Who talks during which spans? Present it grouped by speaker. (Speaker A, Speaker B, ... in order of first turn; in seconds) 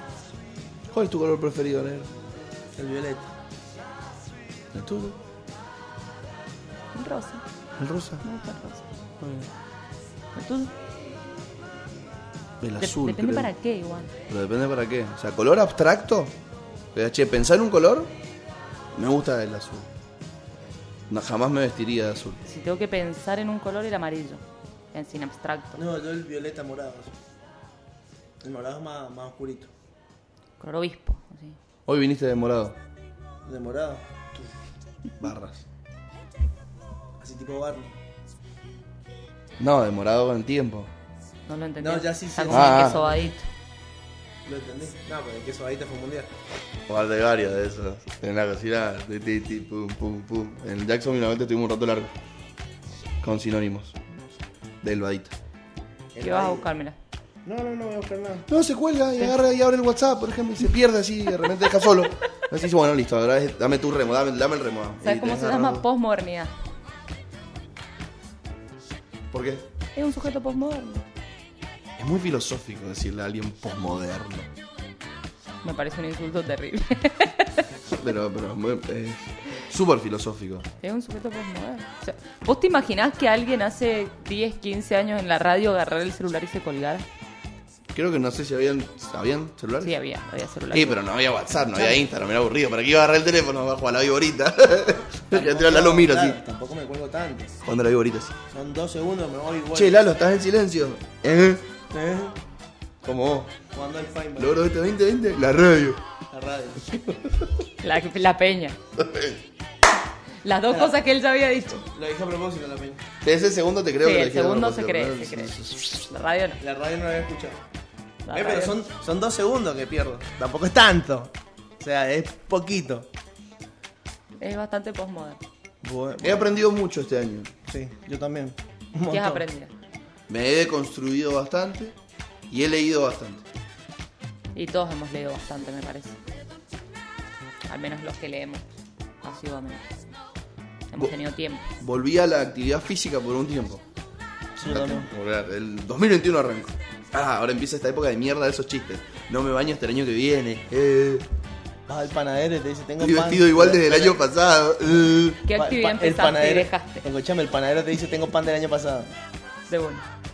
Speaker A: 0.9-2.1, 4.7-5.2, 7.8-8.2, 12.6-13.5, 14.3-16.3, 16.9-18.1, 18.9-19.9, 21.1-22.4, 31.9-32.8, 35.2-35.6, 39.6-40.9, 42.5-43.0, 46.9-52.1, 53.2-54.0, 54.8-55.3, 58.5-65.8, 69.3-69.6, 72.0-74.5, 77.9-80.7, 87.9-90.0, 90.7-96.4, 97.6-98.3, 99.7-101.7, 103.0-103.5, 104.4-106.0, 106.9-107.5, 109.0-109.4, 113.2-115.9, 126.2-127.5, 130.3-132.0, 132.5-133.4, 141.8-143.8, 144.6-151.3, 153.0-155.4
Speaker B: 2.8-3.3, 25.8-27.1, 28.4-29.7, 33.4-34.5, 37.2-38.0, 41.8-43.3, 44.5-46.3, 56.1-56.7, 57.4-58.5, 95.3-97.5, 98.5-100.0, 101.9-102.4, 103.7-104.5, 106.3-107.0, 111.9-113.0, 116.6-117.6, 118.3-123.1, 125.8-126.5, 127.7-129.4, 144.6-145.1, 151.9-154.2, 155.5-159.1
Speaker C: 6.9-7.4, 8.2-8.8, 10.3-10.7, 12.8-14.1, 22.5-25.8, 30.6-31.6, 41.5-43.5, 56.2-57.0, 65.0-66.5, 69.9-71.0, 75.6-77.7, 80.8-87.0, 89.8-91.0, 91.7-92.0, 107.8-108.8, 110.4-111.8, 114.0-116.6, 118.2-118.8, 124.4-125.4, 129.1-129.7, 134.5-136.2, 137.7-138.7, 139.2-139.9, 140.9-141.7, 155.4-157.1, 159.7-160.0